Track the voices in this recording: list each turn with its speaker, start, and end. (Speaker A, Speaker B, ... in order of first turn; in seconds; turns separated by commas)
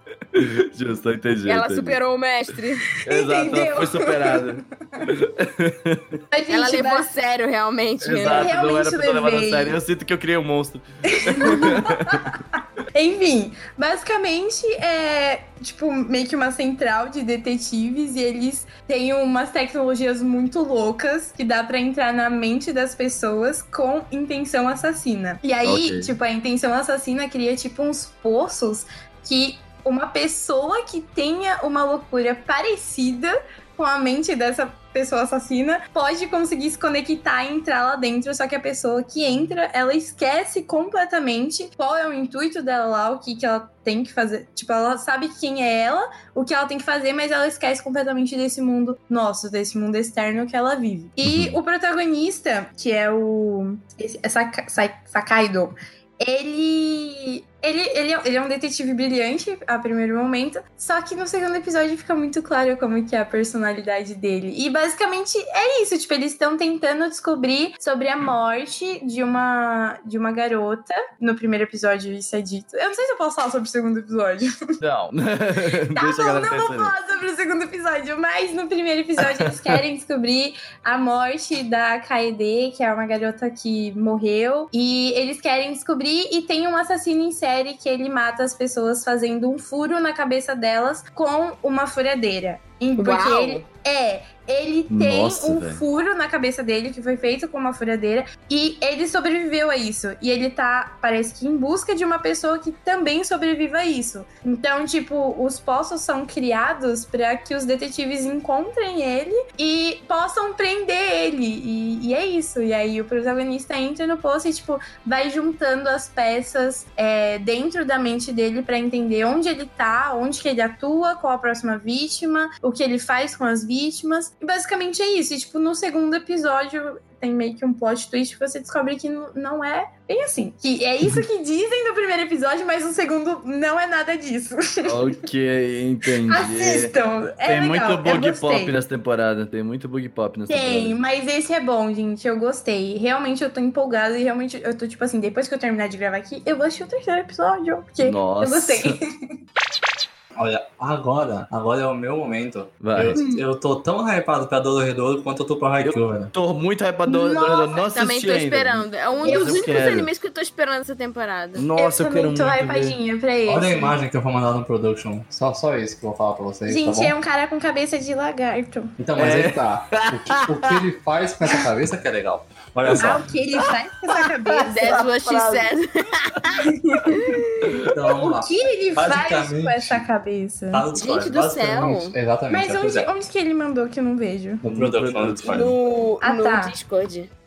Speaker A: 0.3-2.0, Speaker B: 1.5-2.9, Speaker A: 3.0-6.2, Speaker C: 3.1-4.6, Speaker C: 6.3-7.1, Speaker B: 6.5-8.5, Speaker A: 8.0-12.2, Speaker C: 8.2-9.8, Speaker C: 11.1-12.4, Speaker C: 12.9-74.6, Speaker A: 25.6-26.1, Speaker A: 51.2-51.6, Speaker A: 74.8-76.9, Speaker C: 76.0-135.0, Speaker A: 79.2-79.8, Speaker B: 93.0-93.6, Speaker A: 94.9-95.8, Speaker A: 134.8-136.9, Speaker C: 136.3-138.8, Speaker A: 137.4-141.0, Speaker C: 140.5-149.1, Speaker A: 148.0-149.0, Speaker D: 150.4-156.3, Speaker A: 152.8-153.2, Speaker C: 153.2-153.4, Speaker A: 155.8-160.1, Speaker C: 157.1-157.8, Speaker B: 157.9-161.7, Speaker C: 159.2-159.7, Speaker A: 161.6-163.0, Speaker C: 161.8-163.9, Speaker D: 163.5-167.1, Speaker C: 166.7-169.0, Speaker D: 169.0-173.3, Speaker A: 169.2-170.8, Speaker A: 172.8-175.3, Speaker C: 173.0-175.5, Speaker B: 174.7-177.3, Speaker C: 176.7-177.2, Speaker A: 177.6-177.9, Speaker D: 177.9-180.1, Speaker C: 178.2-180.9, Speaker D: 180.7-183.1, Speaker B: 180.9-182.2, Speaker C: 182.5-184.6, Speaker D: 184.6-185.8, Speaker A: 184.6-185.6, Speaker B: 185.5-187.3, Speaker C: 186.2-186.7